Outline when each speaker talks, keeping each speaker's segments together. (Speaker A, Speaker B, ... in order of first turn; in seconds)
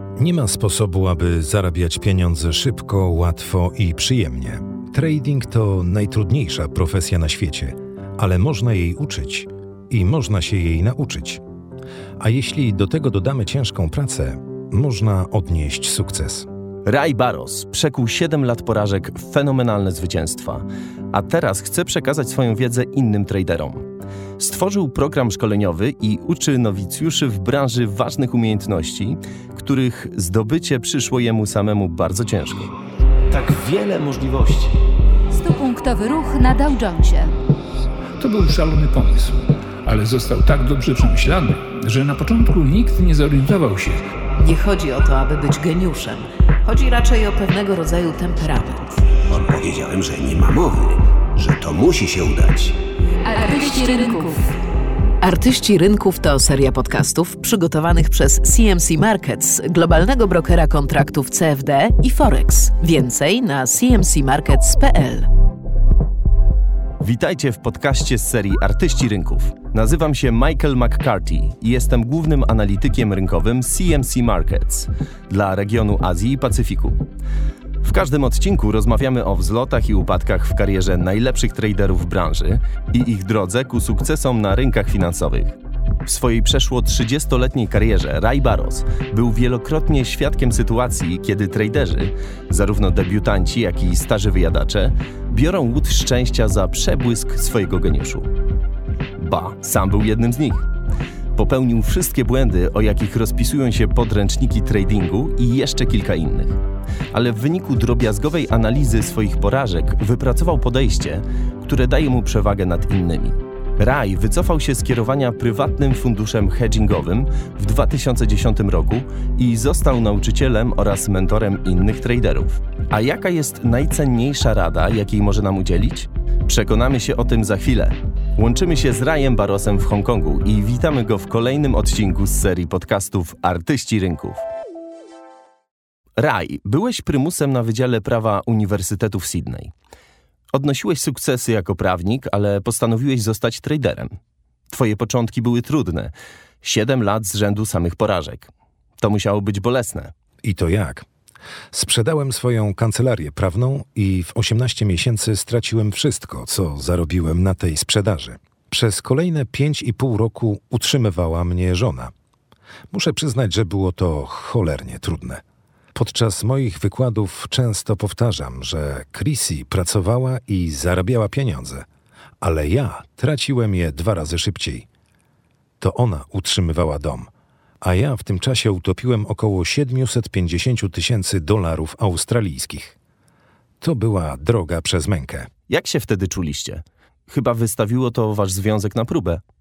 Speaker A: 0.2-11.4, 12.2-16.5, 33.3-34.3, 150.4-151.1, 151.7-162.1, 162.9-165.4, 165.9-171.9, 172.4-174.9, 175.8-177.3, 177.8-182.9, 183.8-185.5
Speaker B: 16.9-23.9, 24.4-32.7, 67.0-77.0, 77.8-98.3, 99.2-100.7, 101.3-106.6, 107.1-134.4, 136.2-139.7, 140.5-144.2, 144.7-150.1, 185.7-189.4
Speaker C: 33.6-34.5, 49.2-52.8
Speaker D: 35.3-37.3, 53.3-54.4
Speaker E: 38.2-44.0
Speaker F: 44.4-49.1, 53.9-54.2, 55.2-65.3